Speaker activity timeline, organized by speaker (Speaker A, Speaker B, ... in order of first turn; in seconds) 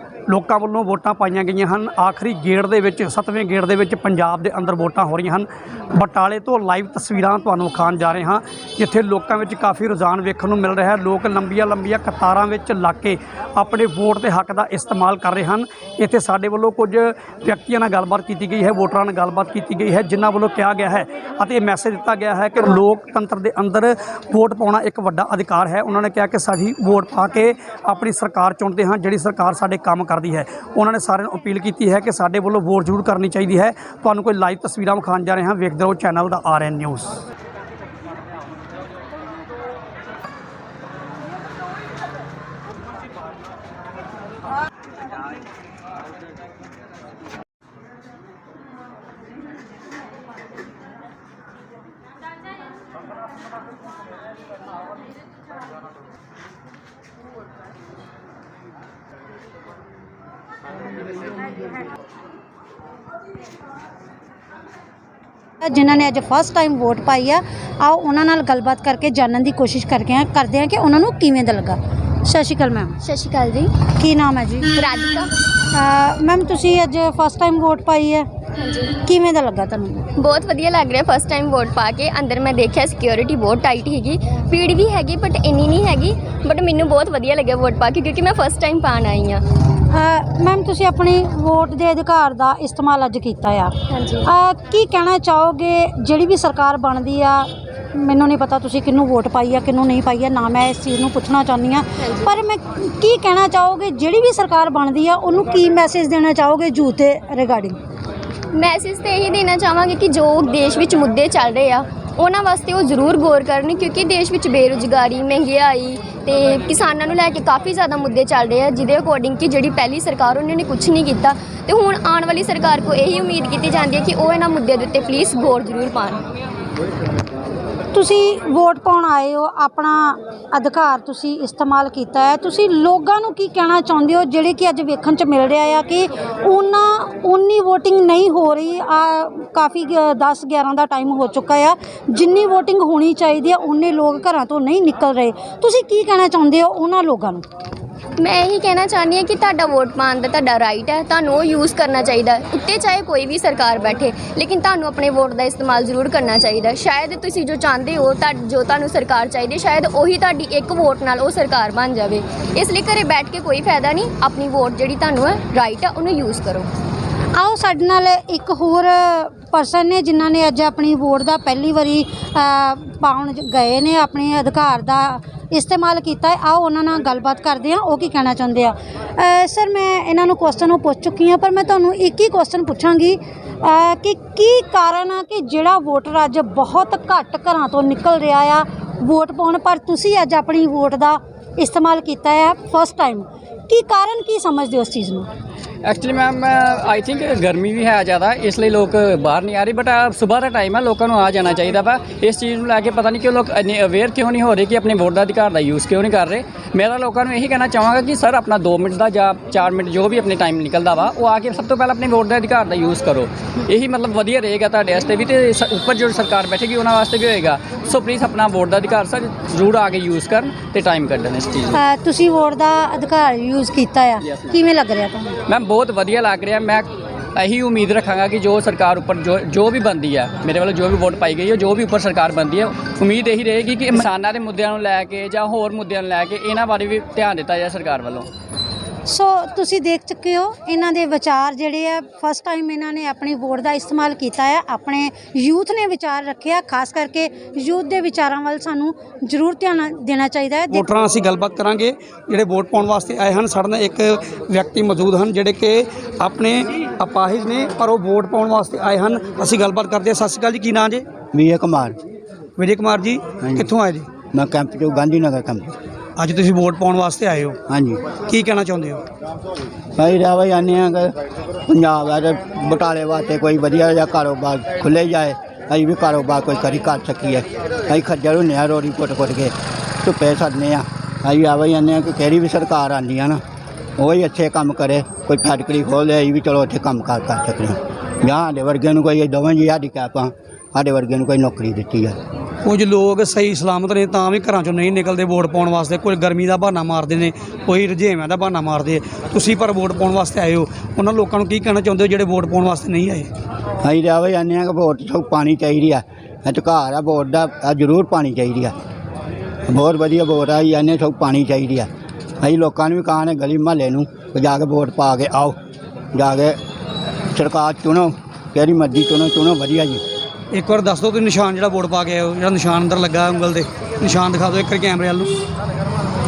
Speaker A: 0.3-37.2, 250.7-261.1, 262.6-264.1, 266.2-267.6, 268.3-269.1, 292.6-303.3, 320.5-325.4
Speaker B: 65.6-73.0, 74.0-74.8, 75.7-78.3, 79.0-80.1, 89.9-93.7, 94.3-107.8, 127.9-147.4, 167.4-195.3, 221.7-225.4, 239.1-250.9
Speaker C: 73.0-73.7, 74.8-75.3, 78.6-79.0, 80.2-89.4, 93.9-94.3, 108.5-126.2, 148.2-166.7
Speaker D: 195.8-221.8, 225.5-238.3
Speaker E: 261.3-262.0, 263.4-263.7, 264.3-265.8, 267.7-268.1, 270.0-283.4, 284.0-292.2, 303.8-308.8, 309.7-311.9, 312.4-315.6, 316.1-316.6, 317.3-320.0